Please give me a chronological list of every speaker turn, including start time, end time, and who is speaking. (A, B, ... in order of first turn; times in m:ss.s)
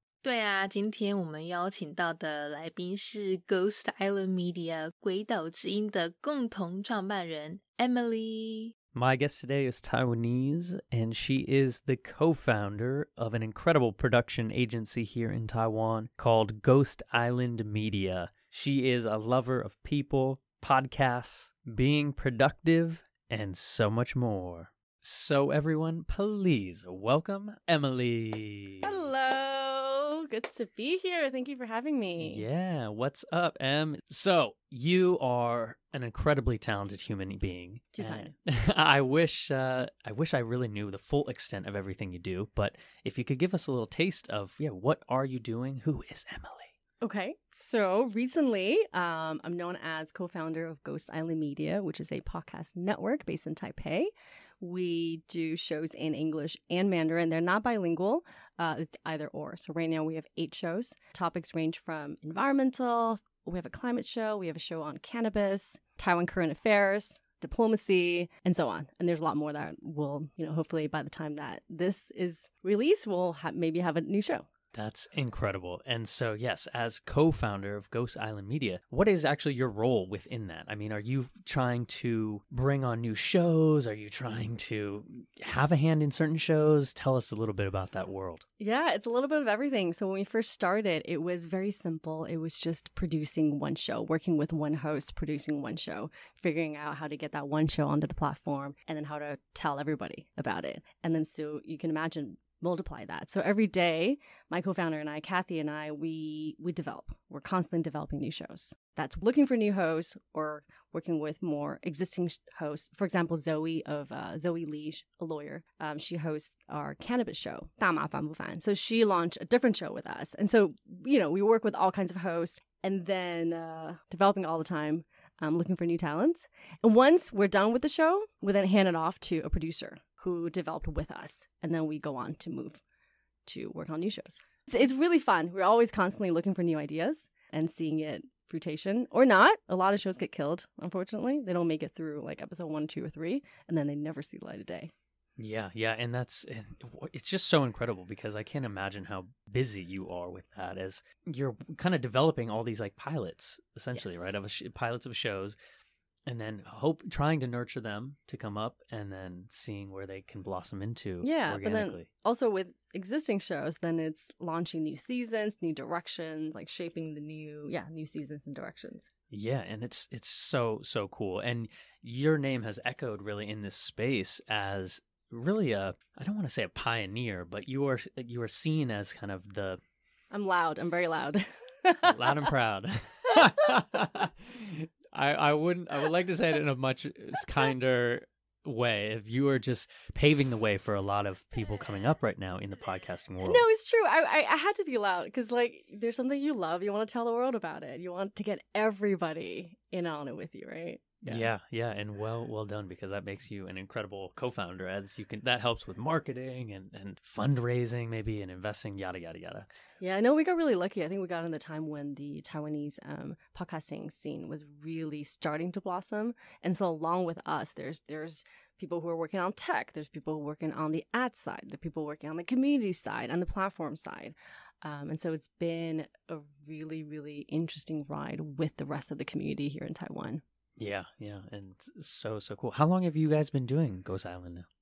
0:00.2-0:08.7 A
0:08.9-0:28.9 B
0:28.8-0:32.4 C
0:32.2-0:46.7 B
0:37.9-0:38.3 C
0:47.0-1:14.5 C
1:14.7-1:28.4 B
1:28.6-2:12.8 C
2:13.4-2:24.9 C
2:25.4-2:35.6 B
2:33.9-2:34.3 C
2:36.3-2:42.1 B
2:41.2-2:49.1 C
2:49.3-2:59.8 B
3:00.3-3:02.5 C
3:02.0-3:13.6 B
3:13.4-3:21.5 C
3:21.2-3:29.7 B
3:30.0-3:50.4 C
3:50.8-3:54.7 B